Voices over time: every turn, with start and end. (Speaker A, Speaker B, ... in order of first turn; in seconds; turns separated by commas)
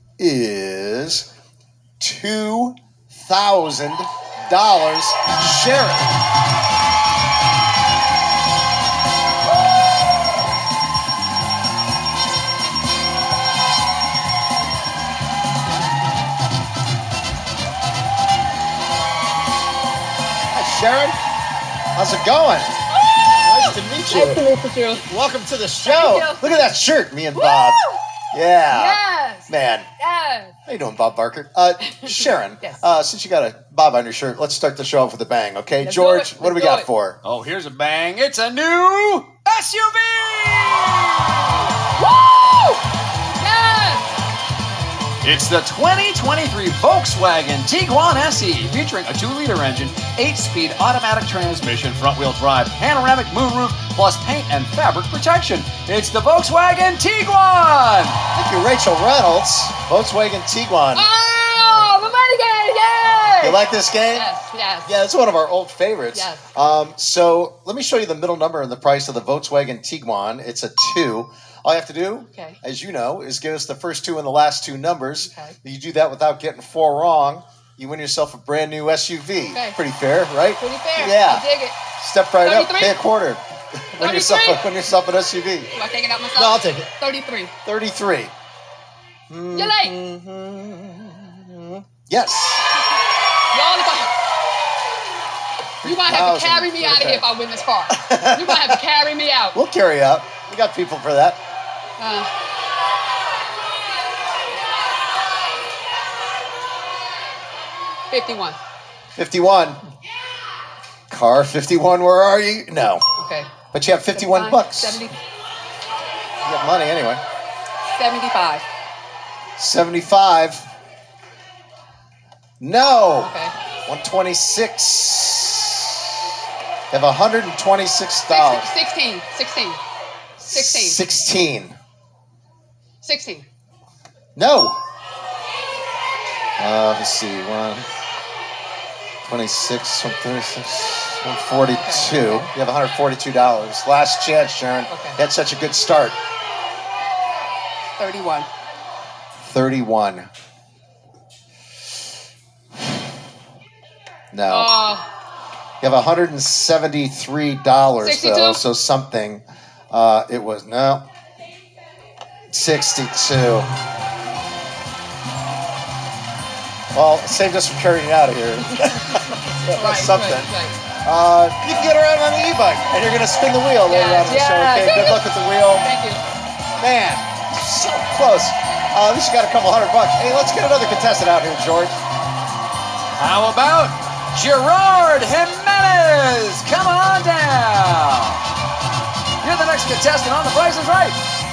Speaker A: 0.2-1.3, Speaker A: 2.0-6.1, Speaker A: 20.5-21.2, Speaker A: 22.0-22.7, Speaker B: 22.9-25.1, Speaker A: 23.4-24.4, Speaker A: 25.1-27.8, Speaker B: 25.8-26.6, Speaker B: 27.3-28.0, Speaker A: 28.3-29.9, Speaker B: 28.7-30.6, Speaker A: 30.7-37.2, Speaker B: 31.9-32.8, Speaker B: 35.8-36.9, Speaker C: 37.2-41.7, Speaker B: 41.9-42.8, Speaker B: 43.4-44.1, Speaker C: 45.2-58.2, Speaker A: 58.3-61.1, Speaker B: 61.0-64.9, Speaker A: 61.6-61.9, Speaker A: 63.4-64.3, Speaker A: 64.9-81.5, Speaker B: 66.1-66.4, Speaker B: 72.3-72.6, Speaker B: 75.2-75.6, Speaker B: 79.5-79.8, Speaker B: 80.6-81.8, Speaker A: 82.0-85.7, Speaker B: 82.4-83.0, Speaker B: 84.0-84.7, Speaker B: 85.7-87.5, Speaker A: 86.3-86.9, Speaker A: 87.7-88.3, Speaker A: 89.3-92.7, Speaker B: 89.5-90.0, Speaker B: 93.5-94.1, Speaker A: 95.8-97.3, Speaker B: 95.8-99.6, Speaker A: 97.9-98.8, Speaker A: 99.5-101.4, Speaker B: 102.0-102.3, Speaker B: 108.1-108.6, Speaker A: 109.2-109.8, Speaker A: 111.1-113.0, Speaker B: 113.2-113.5, Speaker A: 113.7-115.0, Speaker B: 114.1-115.2, Speaker A: 116.4-117.2, Speaker B: 118.0-118.7, Speaker A: 119.6-120.7, Speaker A: 122.6-123.3, Speaker B: 123.2-123.5, Speaker A: 123.9-126.1, Speaker A: 126.9-128.7, Speaker B: 128.3-129.8, Speaker A: 130.4-131.8, Speaker B: 130.5-131.0, Speaker B: 133.0-133.5, Speaker A: 134.4-134.8, Speaker A: 136.6-137.9, Speaker A: 139.2-146.2, Speaker B: 141.7-142.5, Speaker B: 144.9-145.2, Speaker B: 148.0-148.5, Speaker A: 149.4-150.3, Speaker A: 154.3-154.7, Speaker B: 154.5-155.1, Speaker A: 155.8-161.1, Speaker B: 158.0-158.6, Speaker A: 162.5-163.7, Speaker A: 166.9-170.5, Speaker B: 168.8-170.8, Speaker A: 171.0-175.9, Speaker B: 173.9-175.2, Speaker B: 175.8-176.2, Speaker A: 176.8-182.0, Speaker C: 183.2-188.4, Speaker C: 189.4-191.2